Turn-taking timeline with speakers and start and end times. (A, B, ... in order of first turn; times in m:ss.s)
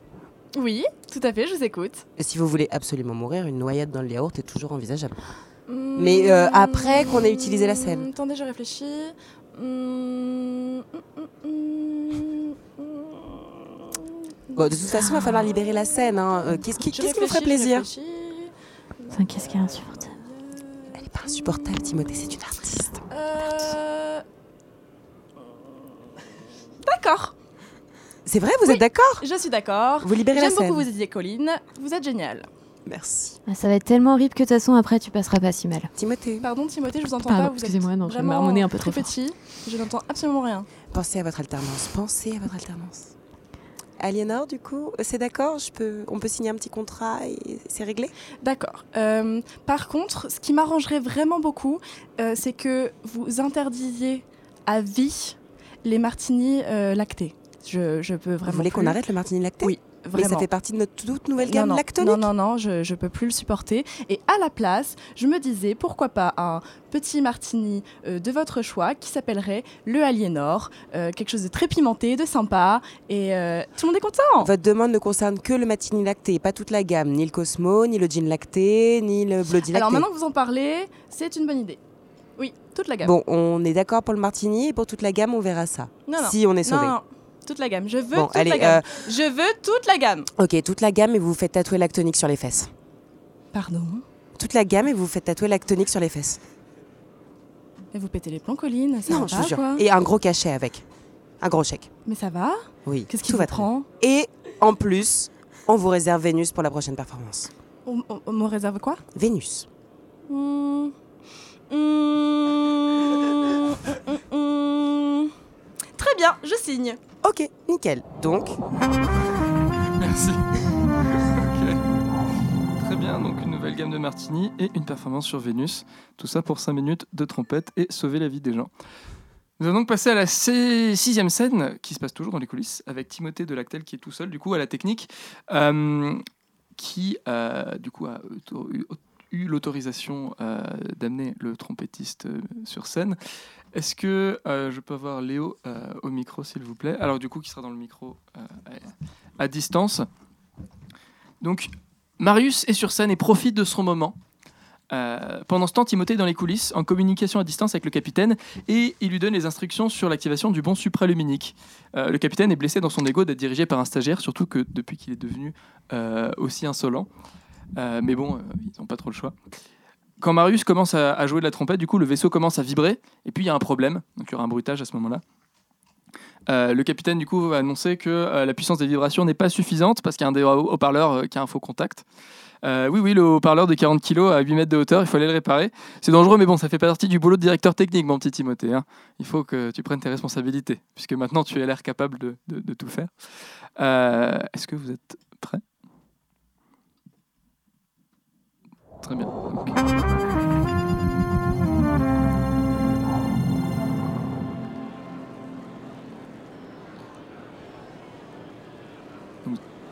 0:00.5-0:02.0 A
0:02.2-0:05.2 B
0:05.7-0:14.6 A
0:05.9-0:08.1 B
0:14.6-0:17.9 B
0:16.9-0:20.9 A
0:19.1-0:20.1 C
0:20.9-0:23.0 B
0:23.1-0:24.2 A
0:26.8-0:27.3 A
0:28.2-0:29.2 B
0:28.6-0:32.5 A
0:30.0-0:30.9 B
0:32.8-0:33.4 B
0:33.5-0:35.9 C
0:36.0-0:36.5 B
0:36.4-0:40.7 A
0:37.2-0:39.1 C
0:40.9-0:43.1 B
0:44.0-0:48.1 B
0:48.4-0:59.0 A
0:58.4-1:02.3 B
0:59.6-1:00.5 A
1:01.4-1:14.5 A
1:14.4-1:20.1 B
1:19.6-1:21.8 A
1:22.4-1:23.1 A
1:23.0-1:27.0 B
1:26.0-1:30.3 A
1:28.1-1:29.0 B
1:30.4-1:32.7 B
1:33.5-1:34.0 A
1:34.4-1:36.4 B
1:37.9-1:39.8 A
1:39.1-1:40.8 B
1:41.4-1:41.9 B
1:42.0-1:43.9 A
1:42.8-1:47.5 B
1:47.8-1:49.0 A
1:49.1-1:49.7 B
1:50.3-1:50.9 A
1:51.7-1:55.3 A
1:56.0-1:57.0 A
1:57.2-1:58.6 B
2:00.0-2:01.8 D
2:02.8-2:08.7 D
2:09.6-2:16.2 D
2:16.8-2:23.2 D
2:23.7-2:30.1 D
2:31.4-2:34.2 D
2:34.9-2:47.1 D
2:47.8-2:49.3 D
2:50.2-2:55.2 D
2:56.5-3:02.0 D
3:02.6-3:13.1 D
3:13.8-3:15.6 D
3:19.0-3:19.8 D